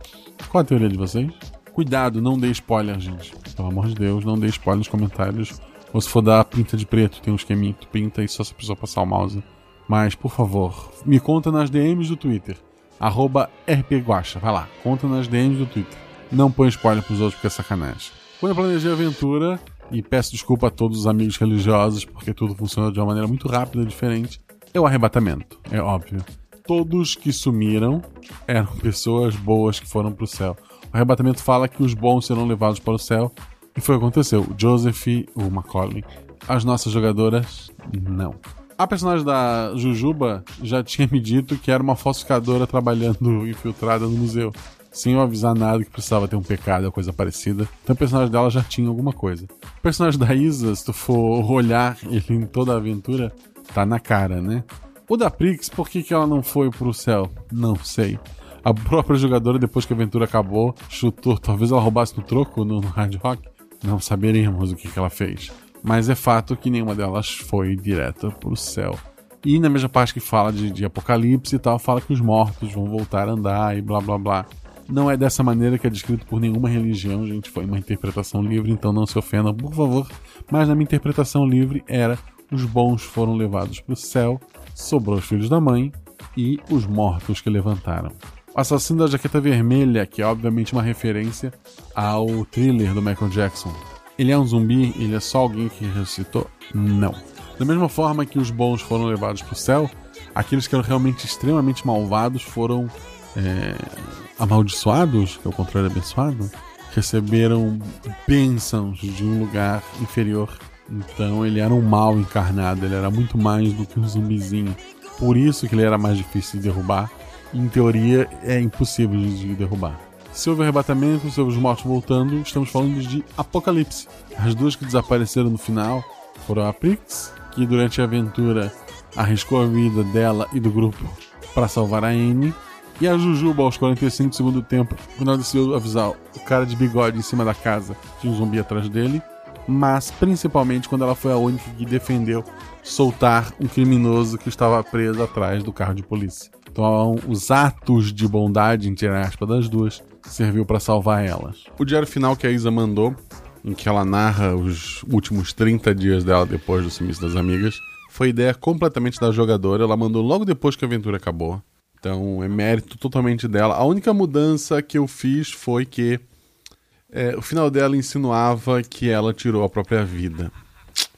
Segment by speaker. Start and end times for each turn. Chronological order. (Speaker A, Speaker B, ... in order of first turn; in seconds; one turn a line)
Speaker A: 0.5-166.2
Speaker A: 167.1-170.5